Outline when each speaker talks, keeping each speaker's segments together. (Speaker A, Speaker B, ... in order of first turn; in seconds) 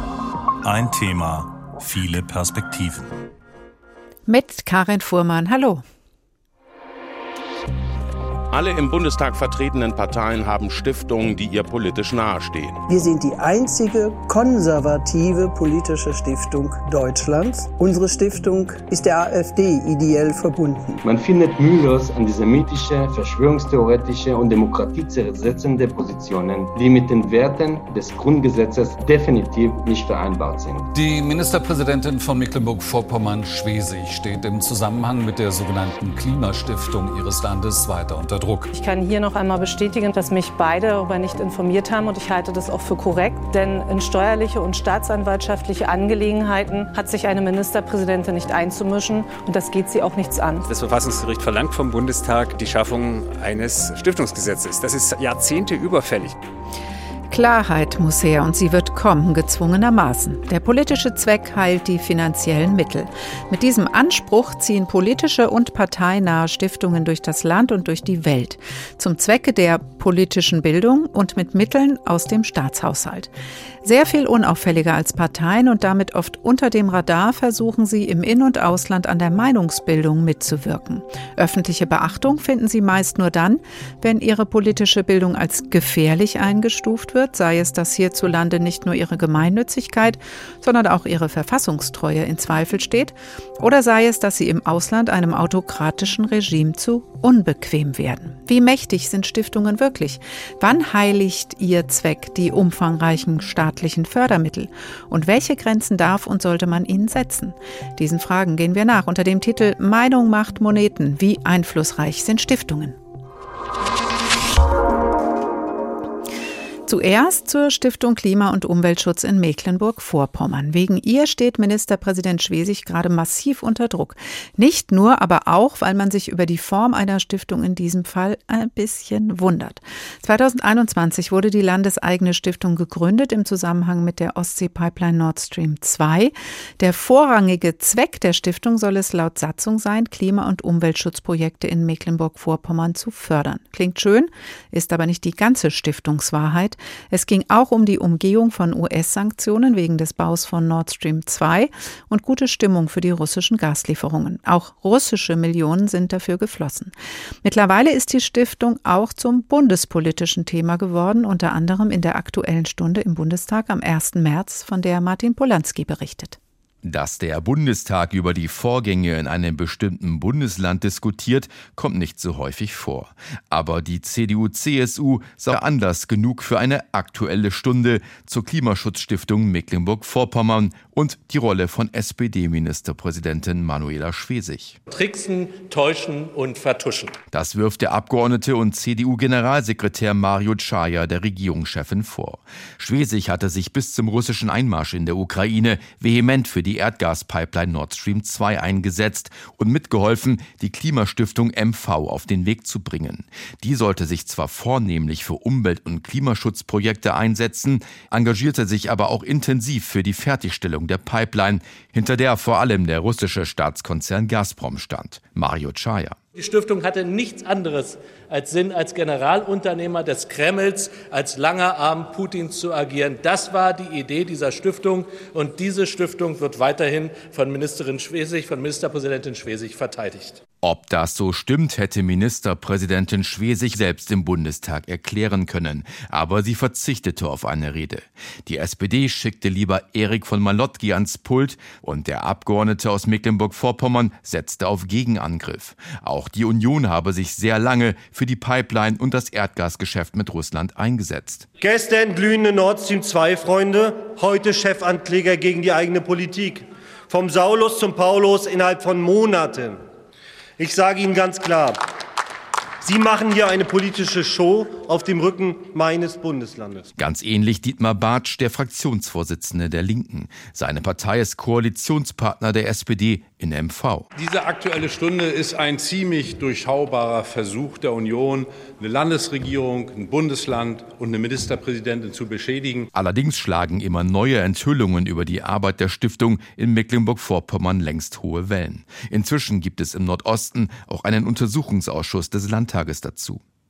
Speaker A: 0.6-3.1, 274.1-282.9
Speaker B: 4.3-5.8, 57.3-73.3, 73.8-113.0, 116.9-156.9, 157.4-166.4
Speaker C: 8.5-12.8
Speaker D: 12.9-21.0
Speaker E: 21.0-30.9
Speaker F: 30.9-38.7
Speaker G: 38.7-50.7
Speaker H: 50.7-56.4
Speaker I: 166.8-184.8, 187.3-216.2, 230.6-251.4, 267.0-274.1, 282.9-293.4
Speaker J: 184.9-187.2, 216.3-230.4
Speaker K: 251.6-259.8, 260.6-261.8, 262.8-266.9